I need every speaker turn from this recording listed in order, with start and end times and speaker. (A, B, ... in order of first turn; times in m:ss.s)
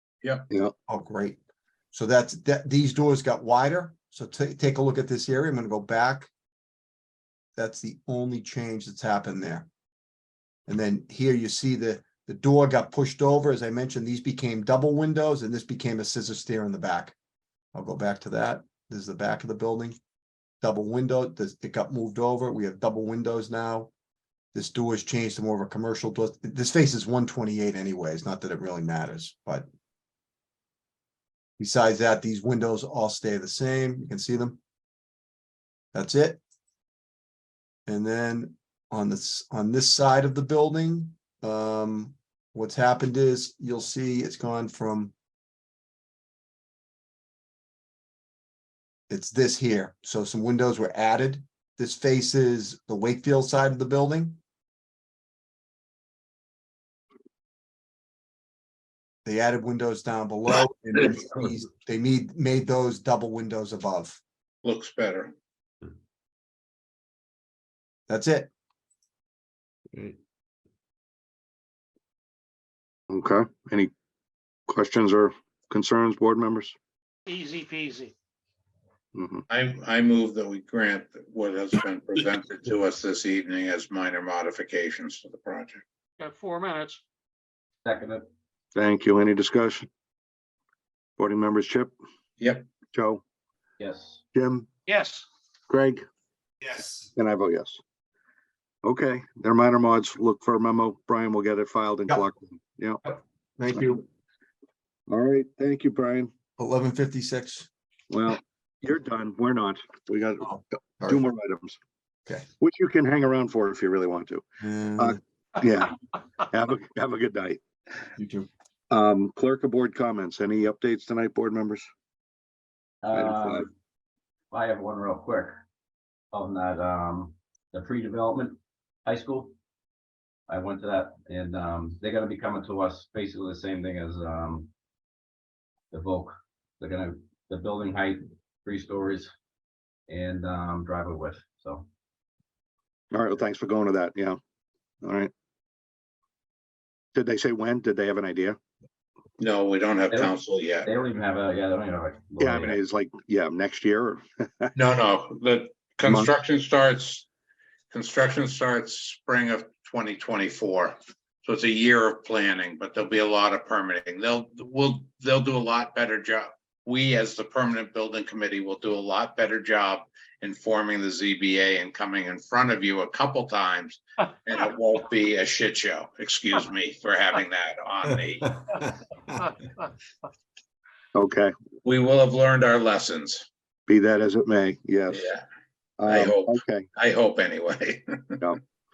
0:00.9-0:01.4 A
0:01.9-0:06.3 A
0:07.6-0:09.7 A
0:10.7-0:17.2 A
0:17.7-0:20.0 A
0:20.6-0:23.9 A
0:24.5-0:29.7 A
0:31.6-0:34.6 A
0:35.9-0:36.4 A
0:37.9-0:45.1 A
0:49.1-0:54.4 A
0:59.2-1:04.2 A
1:04.6-1:05.3 B
1:08.1-1:08.5 A
1:13.1-1:13.9 C
1:14.7-1:16.8 C
1:17.3-1:18.1 D
1:19.2-1:19.4 C
1:19.5-1:25.8 B
1:26.2-1:27.0 D
1:27.8-1:28.2 E
1:28.8-1:29.9 C
1:31.2-1:31.9 C
1:32.4-1:32.7 B
1:32.9-1:33.2 C
1:33.8-1:34.2 E
1:34.3-1:34.7 C
1:34.9-1:35.3 D
1:35.7-1:36.0 C
1:37.2-1:37.8 C
1:38.8-1:43.0 C
1:43.0-1:44.0 A
1:45.1-1:46.3 C
1:46.6-1:47.7 A
1:48.1-1:50.6 C
1:50.4-1:51.2 A
1:51.1-1:51.8 C
1:52.6-1:54.4 C
1:54.6-1:55.2 A
1:55.0-1:57.6 C
1:58.2-1:58.5 A
1:58.9-2:01.9 C
2:03.0-2:03.7 E
2:03.1-2:03.7 C
2:04.5-2:05.6 E
2:06.3-2:09.5 E
2:10.5-2:14.7 E
2:15.9-2:19.3 E
2:20.1-2:21.9 E
2:23.1-2:24.4 C
2:25.0-2:25.3 C
2:27.1-2:28.6 C
2:29.4-2:30.9 B
2:30.1-2:32.8 E
2:32.4-2:34.7 C
2:34.8-2:37.3 B
2:36.1-2:36.3 C
2:37.9-2:58.6 B
3:01.2-3:01.5 C
3:01.8-3:03.5 B
3:03.9-3:05.3 C
3:05.1-3:05.4 B
3:06.0-3:06.9 C
3:06.1-3:08.4 B